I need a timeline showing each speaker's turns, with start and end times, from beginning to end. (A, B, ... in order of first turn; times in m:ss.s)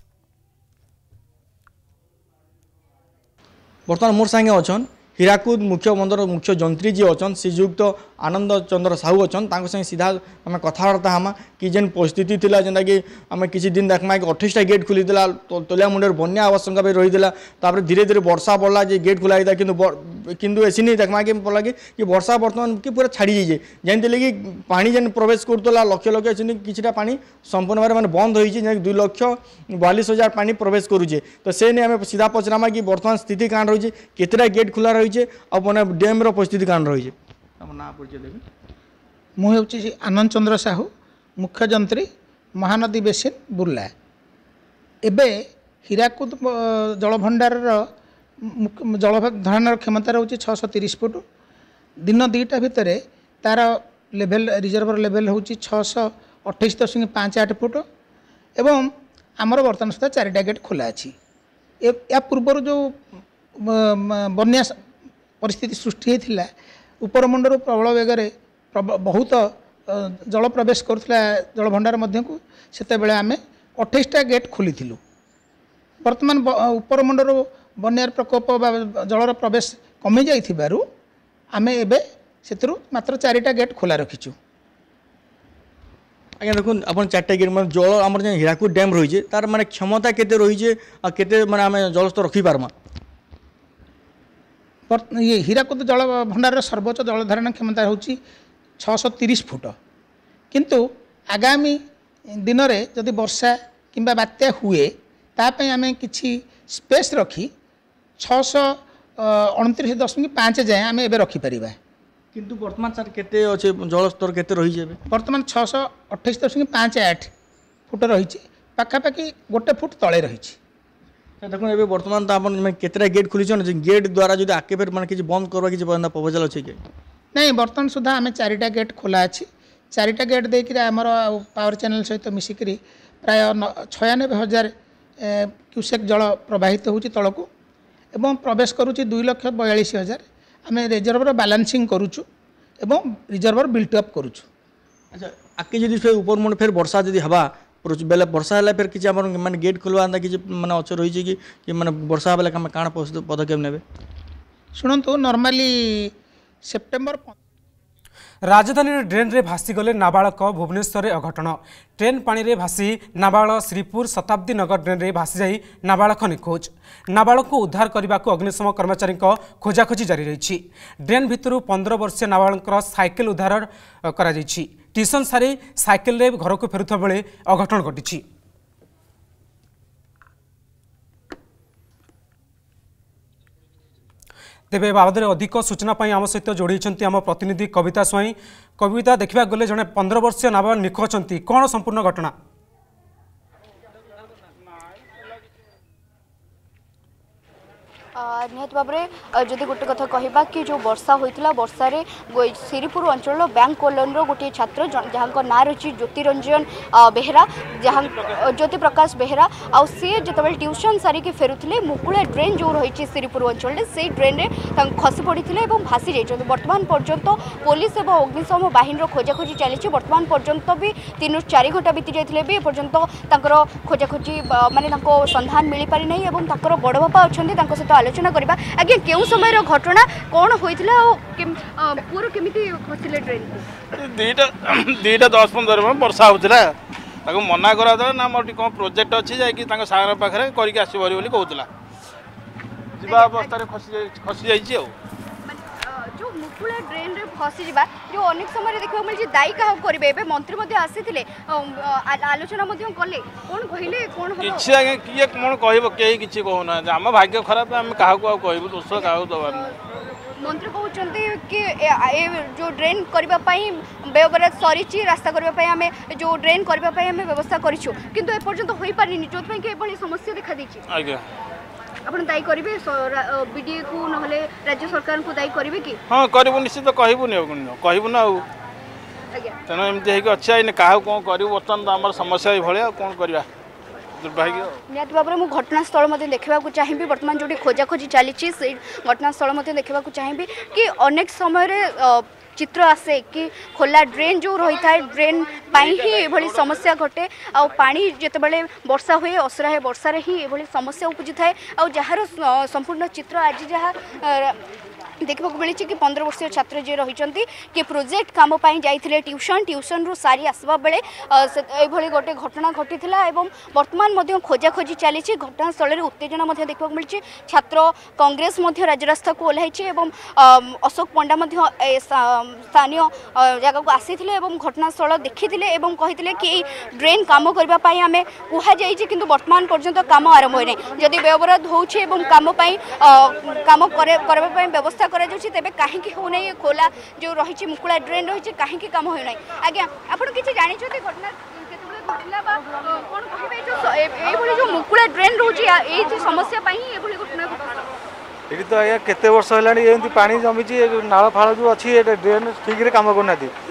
0:03.9-0:38.4 A
0:39.4-0:43.9 B
0:45.0-0:47.9 B
0:48.4-0:51.2 B
0:52.0-0:57.8 B
0:58.6-0:58.9 B
0:59.4-1:01.2 B
1:01.8-1:03.0 B
1:03.6-1:04.7 B
1:05.4-1:06.5 B
1:07.0-1:15.0 B
1:16.0-1:20.9 B
1:21.5-1:24.4 B
1:26.4-1:32.7 A
1:34.9-1:38.2 B
1:38.8-1:39.8 B
1:40.5-1:41.8 B
1:42.4-1:47.5 B
1:48.2-1:51.8 B
1:52.3-1:55.0 A
1:55.1-1:57.3 B
1:57.9-2:00.6 B
2:01.4-2:06.8 A
2:07.4-2:17.5 B
2:18.2-2:22.2 B
2:22.8-2:24.5 B
2:25.1-2:33.8 A
2:34.8-2:36.1 B
2:36.7-2:37.3 B
2:38.5-2:58.2 C
3:04.7-3:12.3 C
3:18.2-3:53.6 D
3:53.9-3:56.7 E
3:57.3-4:01.7 E
4:03.0-4:04.9 E
4:03.1-4:03.5 D
4:05.5-4:14.7 D
4:14.4-4:19.7 E
4:20.4-4:30.8 D
4:30.9-4:31.2 E
4:32.1-4:36.0 D
4:36.1-4:38.4 E
4:39.3-4:39.6 D
4:39.7-4:43.5 E
4:44.2-4:44.8 E
4:44.9-5:04.6 D
5:05.2-5:47.7 D
5:48.5-5:53.5 F